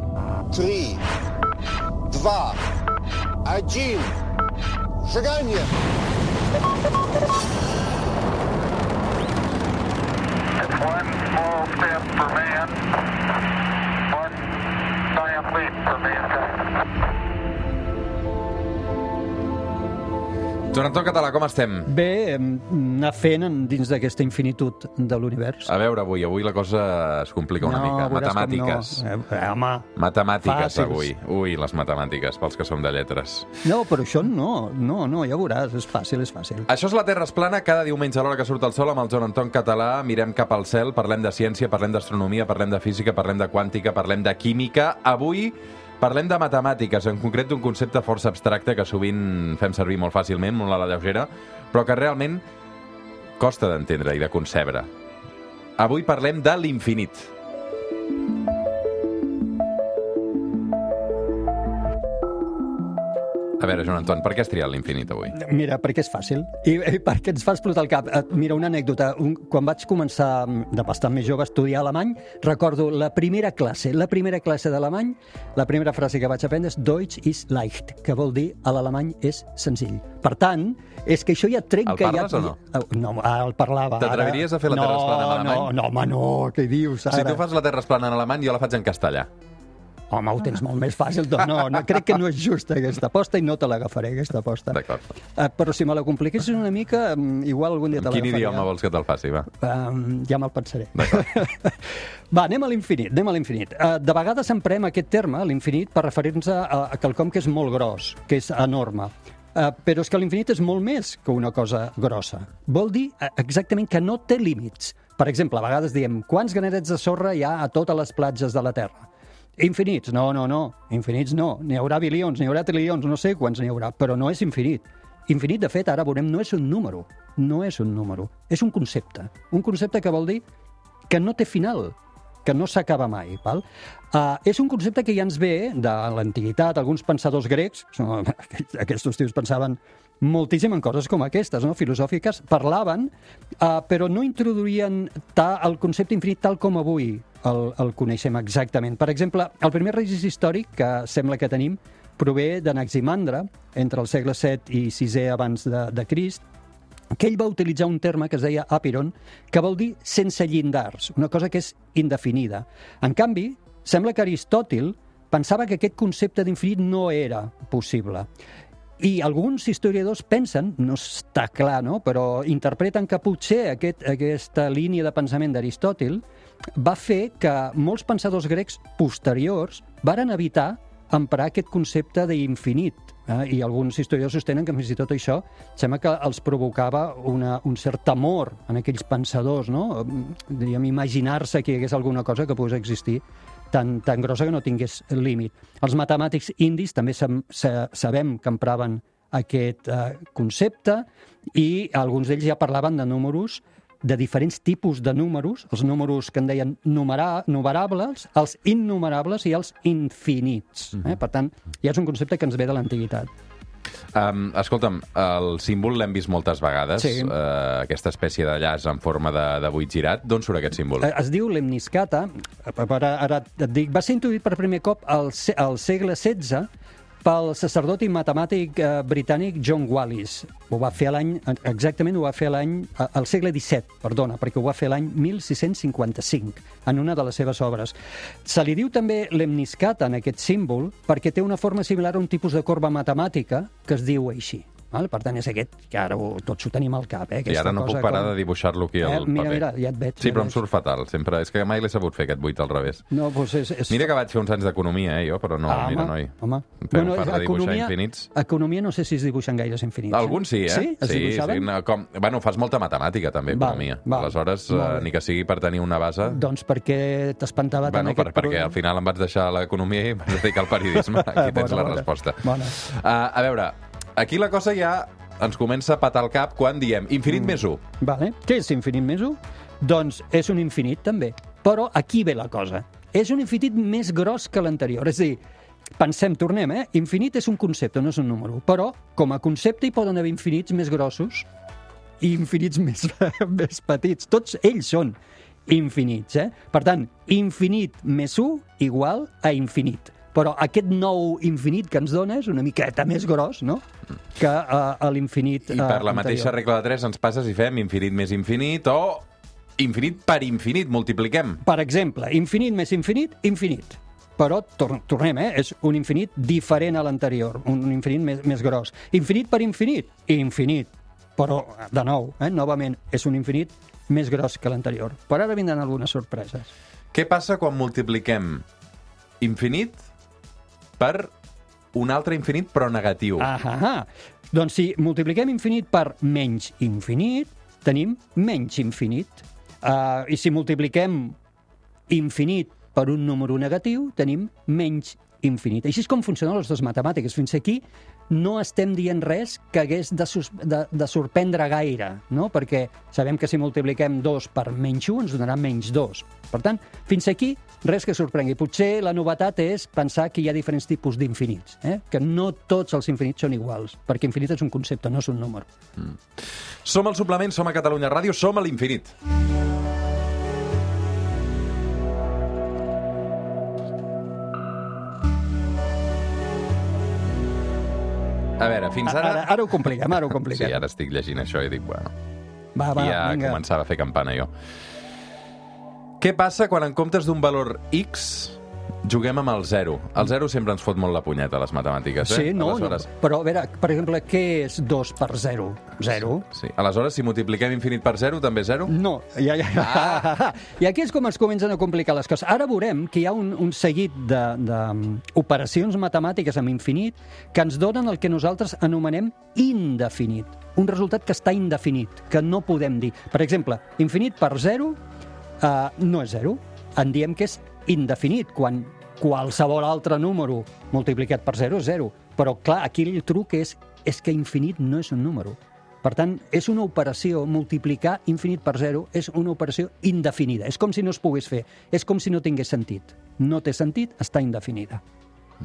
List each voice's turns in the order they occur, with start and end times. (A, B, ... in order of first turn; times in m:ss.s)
0:10.6-0:12.8 A
0:15.1-0:16.6 A
0:20.7-0:21.9 B
0:21.9-0:25.7 C
0:25.7-0:29.0 B
0:27.6-0:29.9 C
0:30.0-0:33.5 B
0:30.4-0:31.1 C
0:33.6-0:36.7 C
0:36.7-0:52.4 B
0:53.4-0:54.9 B
0:55.8-0:57.3 B
1:03.6-1:05.4 B
1:05.3-1:27.4 C
1:21.9-1:22.6 B
1:24.0-1:25.7 B
1:27.1-1:29.3 B
1:30.1-1:38.7 C
1:34.7-1:35.0 B
1:38.0-1:39.5 B
1:39.5-2:10.4 C
2:11.1-2:36.4 C
2:37.2-2:48.3 C
2:49.0-2:56.2 C
2:56.8-3:33.3 C
3:34.2-3:41.1 B
3:37.0-3:37.3 C
3:41.0-3:46.7 C
3:47.2-4:08.3 C
4:07.5-4:09.6 B
4:09.0-4:10.6 C
4:10.2-4:13.0 B
4:13.1-4:14.1 C
4:13.9-4:18.3 B
4:15.7-4:21.7 C
4:20.1-4:26.4 B
4:23.5-4:25.1 C
4:26.2-4:28.8 C
4:27.9-4:37.8 B
4:31.0-4:32.8 C
4:37.3-4:45.4 C
4:46.0-4:51.5 C
4:52.2-5:03.8 C
5:04.4-5:06.6 C
5:05.7-5:09.2 B
5:09.8-5:11.6 B
5:11.6-5:26.7 C
5:27.1-5:28.6 B
5:29.4-5:30.0 B
5:31.0-5:31.3 B
5:31.9-5:33.5 B
5:33.4-5:41.4 C
5:42.1-6:05.7 C
6:06.8-6:09.1 B
6:18.6-6:19.5 B
6:19.0-6:20.8 C
6:20.1-6:22.1 B
6:22.8-6:23.6 C
6:22.9-6:24.5 B
6:26.2-6:33.1 B
6:32.2-6:36.4 C
6:36.5-6:38.9 B
6:38.9-6:55.0 C
6:39.8-6:40.2 B
6:55.6-7:15.0 C